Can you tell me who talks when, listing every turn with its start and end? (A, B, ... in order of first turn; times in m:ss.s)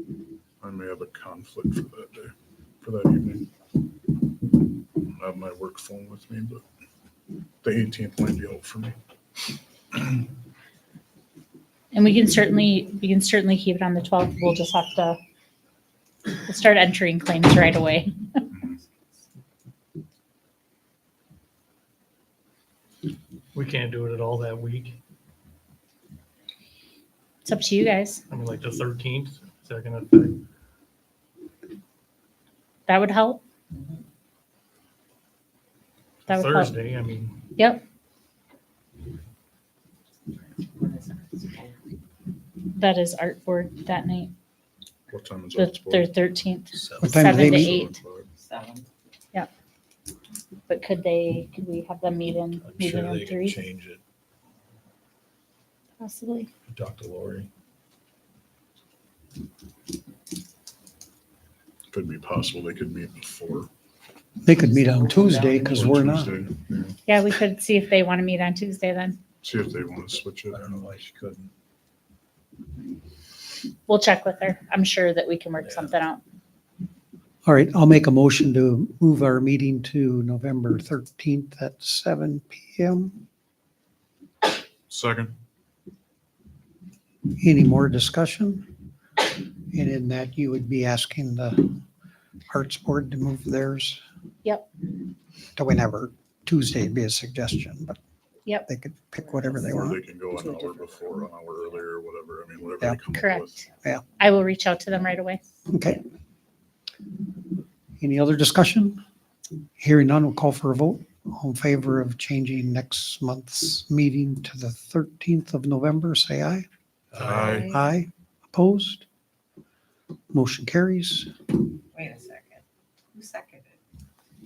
0:00.6-0:03.5 A
0:05.0-0:06.6 A
0:07.6-0:09.0 A
0:11.9-0:15.2 B
0:16.4-0:18.2 B
0:23.6-0:25.0 C
0:27.4-0:28.2 B
0:28.3-0:30.4 C
0:32.9-0:33.4 B
0:36.3-0:36.8 B
0:36.3-0:37.4 C
0:37.6-0:37.8 B
0:40.4-0:41.8 D
0:42.7-0:44.3 B
0:45.1-0:46.1 A
0:45.6-0:48.0 B
0:46.9-0:48.3 A
0:47.0-0:47.8 E
0:48.4-0:48.9 D
0:50.7-0:53.6 B
0:52.6-0:54.0 F
0:56.0-0:56.5 B
0:56.7-0:57.5 F
1:01.9-1:03.7 A
1:04.4-1:06.3 E
1:04.7-1:05.8 D
1:05.6-1:07.0 A
1:07.1-1:09.2 B
1:09.4-1:10.8 A
1:10.5-1:11.5 F
1:13.9-1:16.2 B
1:17.4-1:23.2 E
1:24.9-1:25.3 A
1:27.3-1:28.7 E
1:29.7-1:31.8 E
1:32.5-1:34.0 E
1:35.6-1:38.0 E
1:38.7-1:40.0 E
1:39.8-1:43.7 A
1:40.3-1:41.1 D
1:43.1-1:43.6 B
1:44.2-1:45.4 B
1:45.7-1:46.0 E
1:48.0-1:49.0 E
1:49.8-1:56.6 E
1:57.2-1:57.8 A
1:57.5-1:59.0 E
2:00.3-2:01.3 E
2:01.9-2:02.6 D
2:03.1-2:03.8 D